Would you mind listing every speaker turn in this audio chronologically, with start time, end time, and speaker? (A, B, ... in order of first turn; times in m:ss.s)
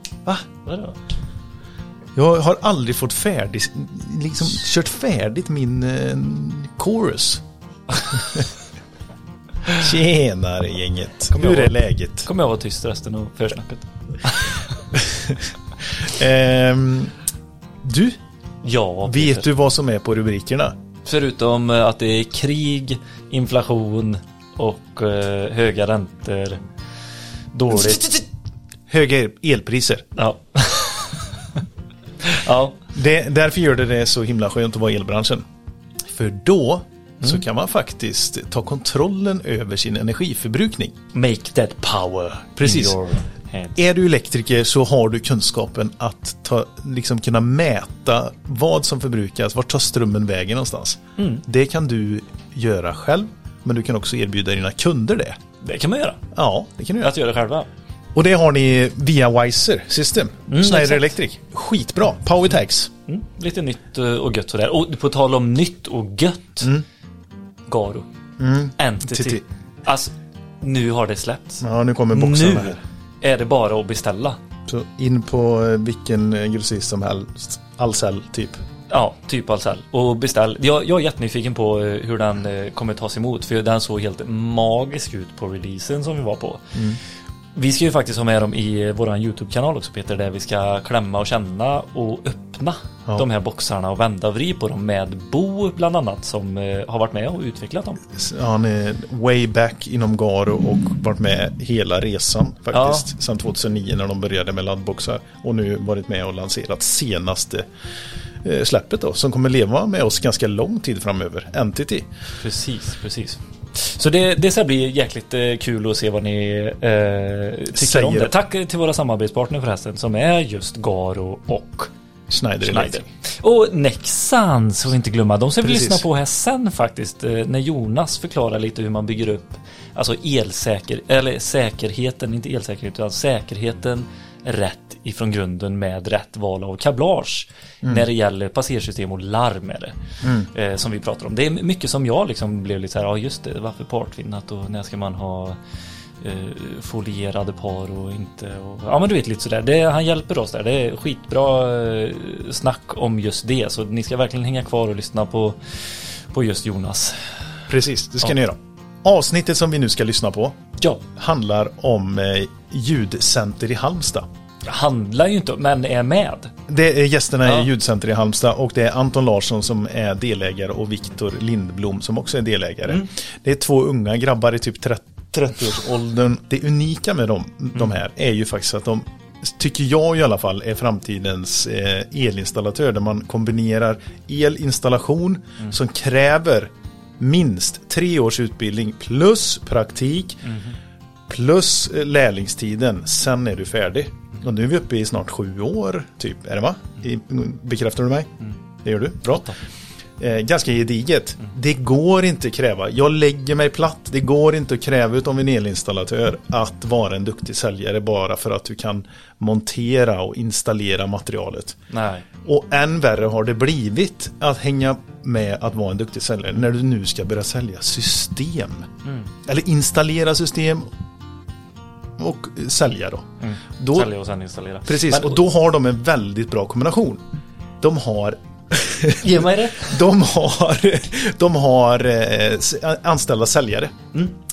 0:00.6-0:01.0 A
0:02.1-0:07.4 B
0:08.1-0:08.4 B
0:09.7-0:12.3 B
0:11.3-0:11.7 A
0:12.2-0:14.7 A
0:14.9-0:17.2 B
0:17.8-0:18.2 B
0:18.6-0:19.5 A
0:19.0-0:20.8 B
0:21.0-0:26.6 A
0:27.5-0:28.1 A
0:27.7-0:28.2 B
0:28.9-0:30.0 B
0:30.2-0:31.6 A
0:32.2-0:32.8 A
0:32.9-0:35.4 B
0:36.1-0:41.0 B
0:41.1-0:43.8 A
0:42.1-0:43.0 B
0:43.8-0:55.4 B
0:51.2-0:51.4 A
0:55.6-0:56.3 A
0:56.3-0:57.1 B
0:57.0-0:57.7 A
0:58.1-1:02.9 B
1:00.5-1:01.1 A
1:03.1-1:06.7 A
1:07.7-1:08.1 A
1:08.4-1:09.4 B
1:08.8-1:14.4 A
1:11.6-1:12.8 B
1:14.7-1:18.6 B
1:18.9-1:26.6 A
1:26.7-1:27.0 B
1:27.5-1:38.0 A
1:38.1-1:47.7 B
1:42.7-1:43.1 A
1:48.4-1:52.1 B
1:52.4-2:01.9 A
1:57.7-1:58.3 B
2:02.3-2:03.1 B
2:02.6-2:20.0 A
2:05.6-2:06.0 B
2:20.2-2:20.5 B
2:20.5-2:25.6 A
2:26.2-2:37.2 A
2:37.7-2:40.6 B
2:41.1-2:44.3 B
2:44.6-2:46.5 A
2:46.7-3:10.4 B
3:10.4-3:10.7 A
3:11.3-3:18.3 B
3:18.8-3:19.5 B
3:20.2-3:31.8 B
3:31.9-3:32.2 A
3:32.4-3:38.9 B
3:39.0-3:39.3 A
3:39.4-3:40.9 B
3:42.2-3:44.1 B
3:43.4-3:45.4 A
3:44.8-3:47.2 B
3:47.8-3:54.0 B
3:49.2-3:50.0 A